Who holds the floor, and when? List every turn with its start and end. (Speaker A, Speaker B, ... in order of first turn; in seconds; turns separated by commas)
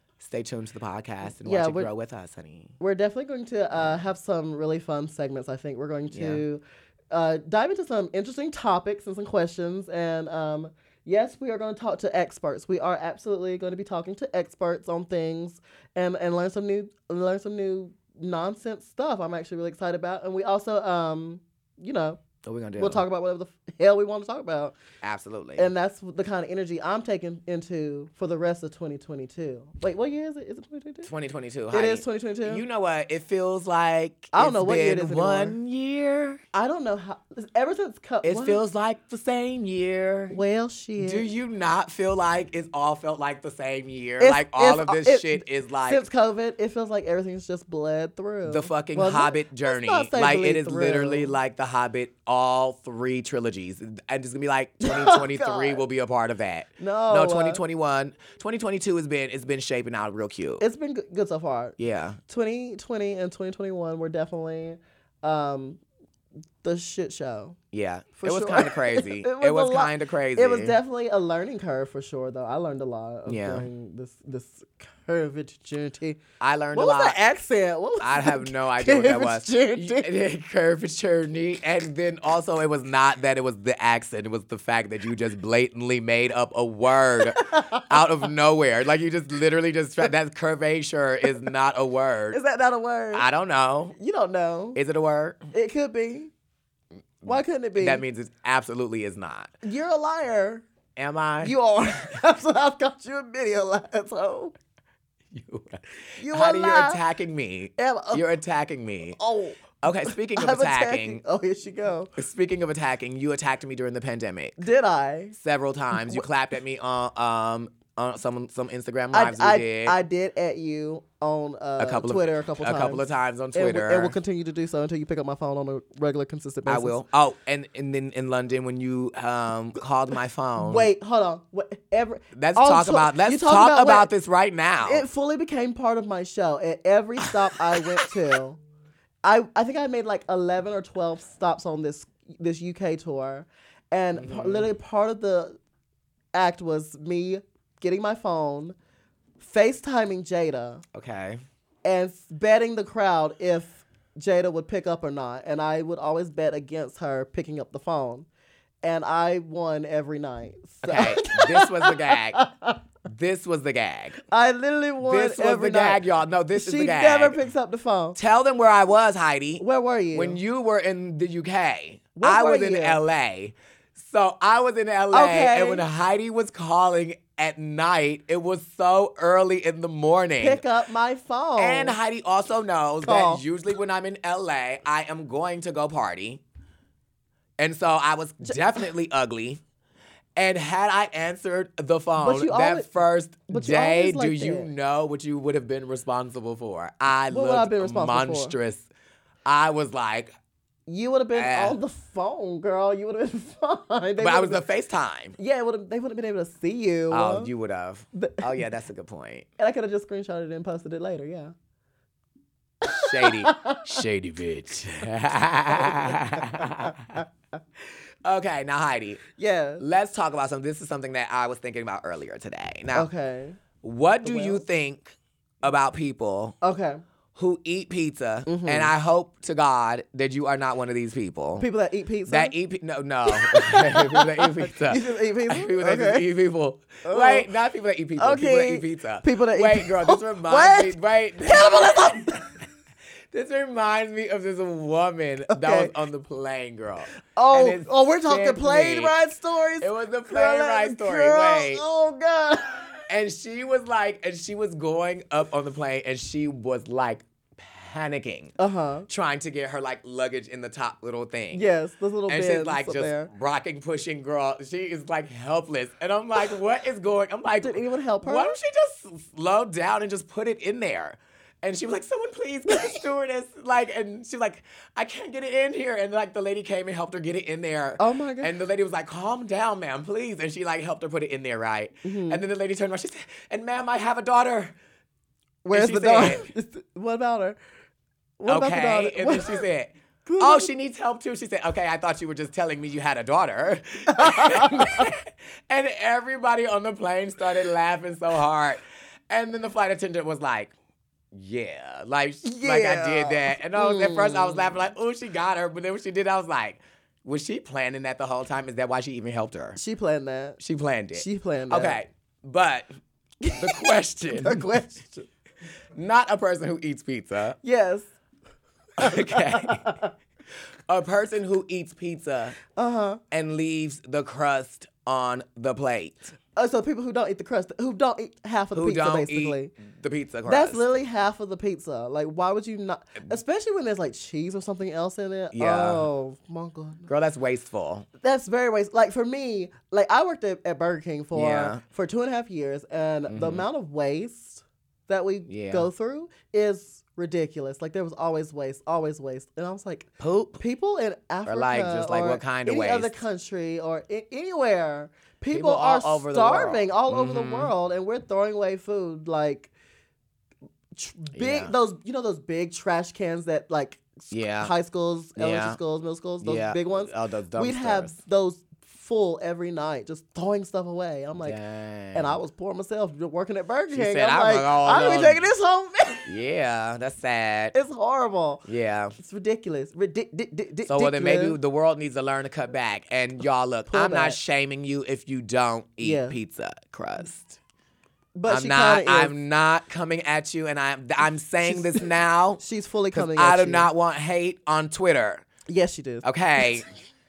Speaker A: 0.2-2.8, Speaker B: 1.4-1.9, Speaker B: 2.8-22.2, Speaker A: 6.1-6.4, Speaker A: 22.4-23.0, Speaker B: 22.8-24.8, Speaker A: 25.0-25.7, Speaker B: 25.6-31.1, Speaker A: 31.0-36.4, Speaker B: 31.7-32.6, Speaker B: 34.3-35.6, Speaker B: 36.5-38.6, Speaker A: 38.2-40.4, Speaker B: 40.3-41.3, Speaker A: 41.0-46.0, Speaker B: 44.2-51.3, Speaker A: 48.4-60.6, Speaker B: 54.8-55.8, Speaker B: 56.8-57.6, Speaker B: 60.6-61.8, Speaker A: 61.8-62.2, Speaker B: 62.3-65.8, Speaker B: 66.6-67.6, Speaker A: 67.7-70.8, Speaker B: 68.2-76.2, Speaker A: 73.3-73.7, Speaker A: 76.4-77.2, Speaker B: 76.7-80.1, Speaker A: 78.0-92.4, Speaker B: 87.3-87.9, Speaker B: 92.3-93.2, Speaker A: 93.1-94.0, Speaker B: 94.0-94.8, Speaker A: 94.7-95.4, Speaker B: 95.5-96.3, Speaker A: 97.2-99.5, Speaker B: 97.2-98.0, Speaker B: 99.6-100.6, Speaker A: 101.0-101.5, Speaker B: 101.4-104.5, Speaker A: 105.3-109.2, Speaker B: 106.2-107.0, Speaker B: 107.8-108.2, Speaker B: 109.2-112.1, Speaker A: 109.8-111.2, Speaker A: 112.2-114.6, Speaker B: 114.6-115.3, Speaker A: 115.3-120.0, Speaker B: 115.9-116.2, Speaker B: 119.1-127.0, Speaker A: 121.8-124.2, Speaker A: 126.7-130.9, Speaker B: 130.6-134.1, Speaker A: 132.3-135.0, Speaker B: 134.8-138.6, Speaker B: 139.2-145.6, Speaker A: 144.2-144.7, Speaker B: 146.3-148.7, Speaker B: 149.4-150.8, Speaker A: 150.9-151.4, Speaker B: 151.8-158.3, Speaker B: 158.8-162.8, Speaker A: 160.8-162.4, Speaker A: 163.1-164.2, Speaker B: 164.3-166.0, Speaker A: 165.0-167.4, Speaker B: 166.5-168.2, Speaker A: 168.2-180.6, Speaker B: 169.6-170.4, Speaker B: 172.2-173.0, Speaker B: 175.1-175.8, Speaker B: 180.4-182.0, Speaker A: 181.6-186.4, Speaker B: 183.0-183.4, Speaker A: 187.6-189.6, Speaker A: 190.3-198.9, Speaker B: 192.2-192.9, Speaker B: 193.5-194.7, Speaker B: 197.3-198.5, Speaker A: 199.4-200.3, Speaker B: 200.9-204.6, Speaker A: 201.3-201.8, Speaker A: 204.2-205.4, Speaker B: 205.4-207.5, Speaker A: 207.1-209.5, Speaker B: 208.1-208.5, Speaker B: 209.6-211.5, Speaker B: 212.8-213.9, Speaker A: 212.9-217.2, Speaker B: 215.8-217.2, Speaker A: 218.2-219.2, Speaker B: 219.4-219.8, Speaker A: 219.8-223.1, Speaker B: 222.9-223.6, Speaker A: 223.8-226.6, Speaker B: 224.2-224.7, Speaker B: 226.6-227.0, Speaker A: 227.3-231.7, Speaker B: 228.4-228.9, Speaker B: 231.6-232.5, Speaker A: 232.3-242.4, Speaker B: 233.3-236.3, Speaker B: 237.0-237.5, Speaker B: 238.2-242.6, Speaker A: 243.3-249.2, Speaker B: 245.5-245.9, Speaker B: 247.3-253.0, Speaker A: 249.8-251.8, Speaker A: 253.1-258.5, Speaker B: 258.6-259.1, Speaker A: 259.1-261.6, Speaker B: 261.5-263.3, Speaker A: 262.3-284.7, Speaker B: 267.6-268.6, Speaker B: 278.0-278.5, Speaker B: 282.0-282.4, Speaker B: 285.6-287.6, Speaker A: 285.7-286.5, Speaker B: 288.4-289.6, Speaker A: 288.5-300.7, Speaker B: 290.2-290.7, Speaker B: 294.1-295.1, Speaker A: 301.3-309.8, Speaker B: 302.4-304.7, Speaker B: 309.8-310.6, Speaker A: 310.6-312.9, Speaker B: 311.1-312.0, Speaker B: 313.4-315.3, Speaker A: 313.6-314.7, Speaker A: 315.9-317.6, Speaker B: 317.6-318.1, Speaker A: 319.0-319.9, Speaker B: 319.0-320.1, Speaker A: 320.9-322.6, Speaker B: 322.7-323.2, Speaker A: 323.3-326.3, Speaker B: 326.6-329.7, Speaker A: 328.7-330.8, Speaker B: 330.4-337.1, Speaker A: 335.5-336.1, Speaker A: 337.1-338.1, Speaker B: 338.2-359.7, Speaker A: 341.3-341.8, Speaker A: 343.3-343.6, Speaker A: 345.5-345.9, Speaker A: 350.2-350.6, Speaker A: 351.4-353.2, Speaker A: 355.5-357.7, Speaker B: 360.9-371.6, Speaker A: 361.3-361.7, Speaker A: 364.3-364.7, Speaker A: 365.4-365.8, Speaker A: 366.4-368.2, Speaker A: 371.4-372.4, Speaker B: 372.1-376.3, Speaker A: 373.9-375.4, Speaker A: 376.2-377.8, Speaker B: 377.7-378.6, Speaker A: 378.6-379.1, Speaker B: 379.2-381.6, Speaker A: 380.9-387.6, Speaker B: 383.9-384.4, Speaker B: 386.0-386.4, Speaker B: 388.3-389.3, Speaker A: 388.5-395.4, Speaker B: 391.7-392.0, Speaker B: 392.6-393.9, Speaker B: 395.7-396.2, Speaker A: 396.2-396.9